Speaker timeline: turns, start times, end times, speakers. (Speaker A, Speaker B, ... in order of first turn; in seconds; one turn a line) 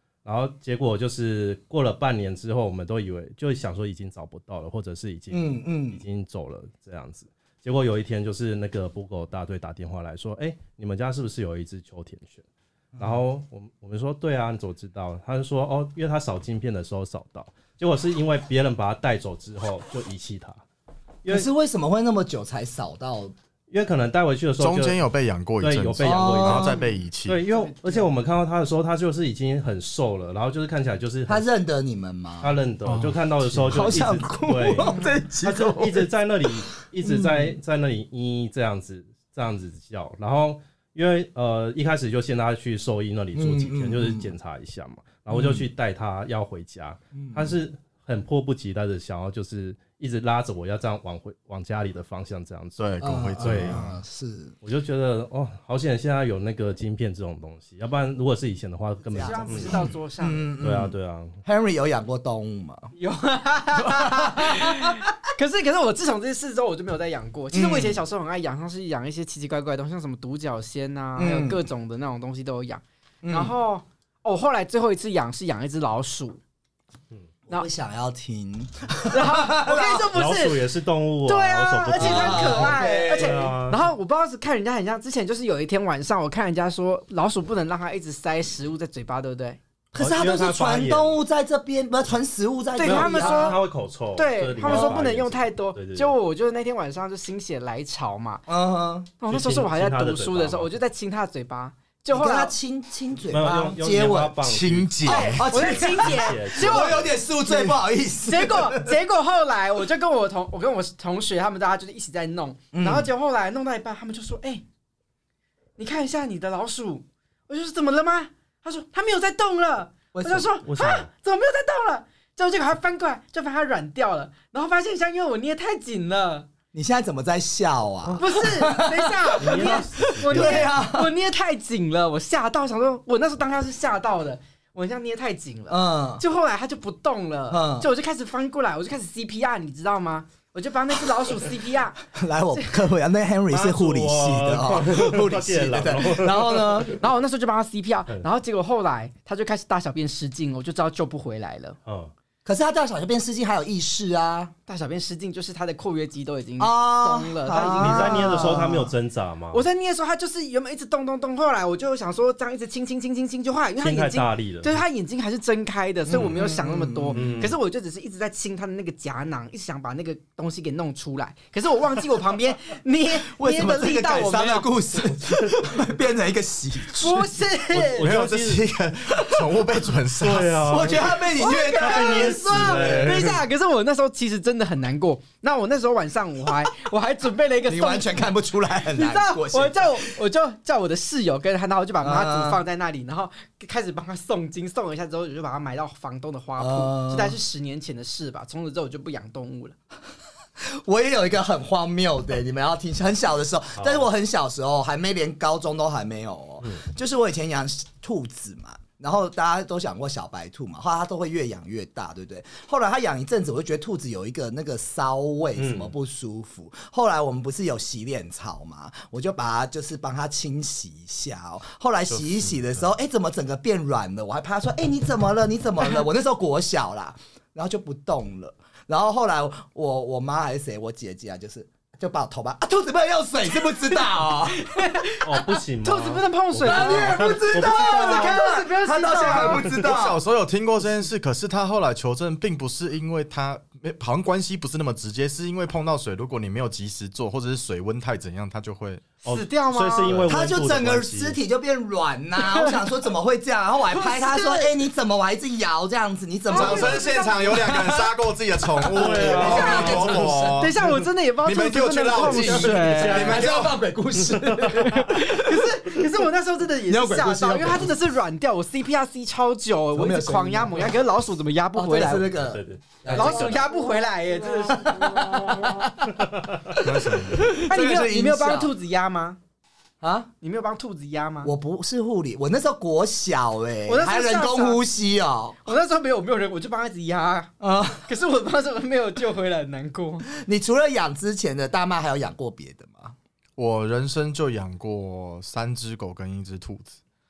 Speaker A: 0.2-12.4
Speaker B: 5.3-6.0
Speaker B: 12.9-13.2
Speaker A: 13.0-20.6
Speaker B: 21.3-23.3
Speaker A: 23.7-25.0
Speaker C: 24.6-27.4
Speaker A: 25.6-31.5
Speaker B: 26.0-26.8
Speaker D: 27.5-28.1
Speaker B: 31.3-36.1
Speaker A: 32.4-52.9
Speaker C: 32.9-33.7
Speaker D: 34.8-35.1
Speaker B: 37.0-37.5
Speaker B: 43.3-44.3
Speaker B: 45.3-45.6
Speaker B: 47.1-47.6
Speaker C: 52.8-53.9
Speaker B: 53.0-54.5
Speaker A: 53.4-53.9
Speaker A: 54.6-59.8
Speaker B: 59.1-62.9
Speaker D: 59.1-60.4
Speaker A: 60.6-61.4
Speaker D: 63.0-76.4
Speaker B: 63.8-65.0
Speaker B: 67.5-68.0
Speaker B: 71.2-71.6
Speaker B: 73.2-73.5
Speaker B: 77.5-80.1
Speaker D: 79.1-80.6
Speaker A: 80.1-83.8
Speaker D: 81.2-89.6
Speaker B: 82.0-83.5
Speaker B: 89.9-93.6
Speaker A: 90.0-91.2
Speaker D: 92.8-98.4
Speaker A: 92.8-96.2
Speaker B: 94.6-95.0
Speaker B: 98.5-99.1
Speaker D: 99.2-102.5
Speaker A: 99.3-100.7
Speaker B: 102.1-104.4
Speaker A: 103.3-107.1
Speaker C: 104.4-105.5
Speaker B: 105.0-108.9
Speaker D: 105.1-114.6
Speaker B: 112.7-113.1
Speaker D: 115.8-126.5
Speaker B: 120.1-120.5
Speaker A: 120.6-121.1
Speaker B: 126.7-131.1
Speaker A: 128.0-128.5
Speaker D: 128.2-142.8
Speaker A: 129.4-130.8
Speaker B: 135.7-136.2
Speaker B: 137.5-137.9
Speaker B: 142.1-147.0
Speaker A: 143.5-147.0
Speaker D: 146.9-151.8
Speaker A: 151.8-152.1
Speaker B: 152.4-154.5
Speaker D: 154.7-158.7
Speaker B: 156.6-158.9
Speaker A: 157.6-159.7
Speaker D: 159.5-174.7
Speaker A: 163.8-164.8
Speaker B: 166.1-167.5
Speaker A: 167.1-167.6
Speaker B: 173.2-177.3
Speaker A: 175.1-175.6
Speaker D: 176.9-178.1
Speaker A: 177.7-178.7
Speaker C: 177.9-181.0
Speaker A: 180.2-183.4
Speaker B: 180.7-183.2
Speaker D: 181.3-188.3
Speaker B: 187.7-190.1
Speaker D: 188.9-199.7
Speaker B: 192.0-192.6
Speaker B: 196.6-197.3
Speaker B: 200.6-234.7
Speaker A: 203.8-204.1
Speaker A: 215.6-215.9
Speaker C: 222.1-222.8
Speaker D: 234.6-239.7
Speaker A: 235.2-238.4
Speaker B: 236.7-240.2
Speaker C: 239.6-249.1
Speaker A: 249.2-251.4
Speaker D: 249.2-250.3
Speaker B: 250.3-258.1
Speaker D: 252.4-253.0
Speaker D: 253.9-254.8
Speaker D: 256.5-257.7
Speaker C: 256.5-260.8
Speaker B: 258.7-260.7
Speaker A: 258.9-260.2
Speaker D: 259.2-263.4
Speaker C: 261.4-263.8
Speaker A: 262.2-263.5
Speaker B: 262.2-266.0
Speaker A: 264.2-264.8
Speaker D: 264.8-272.3
Speaker B: 266.9-267.9
Speaker B: 269.9-271.0
Speaker B: 271.7-273.6
Speaker A: 272.4-273.7
Speaker D: 273.1-275.9
Speaker B: 274.7-276.2
Speaker A: 276.1-276.8
Speaker B: 276.8-278.7
Speaker C: 276.8-277.5
Speaker D: 277.5-279.4
Speaker B: 280.0-280.3
Speaker D: 280.4-281.5
Speaker B: 281.4-285.6
Speaker D: 283.9-284.8
Speaker D: 285.6-290.2
Speaker B: 287.6-288.1
Speaker B: 290.3-293.1
Speaker C: 293.6-297.0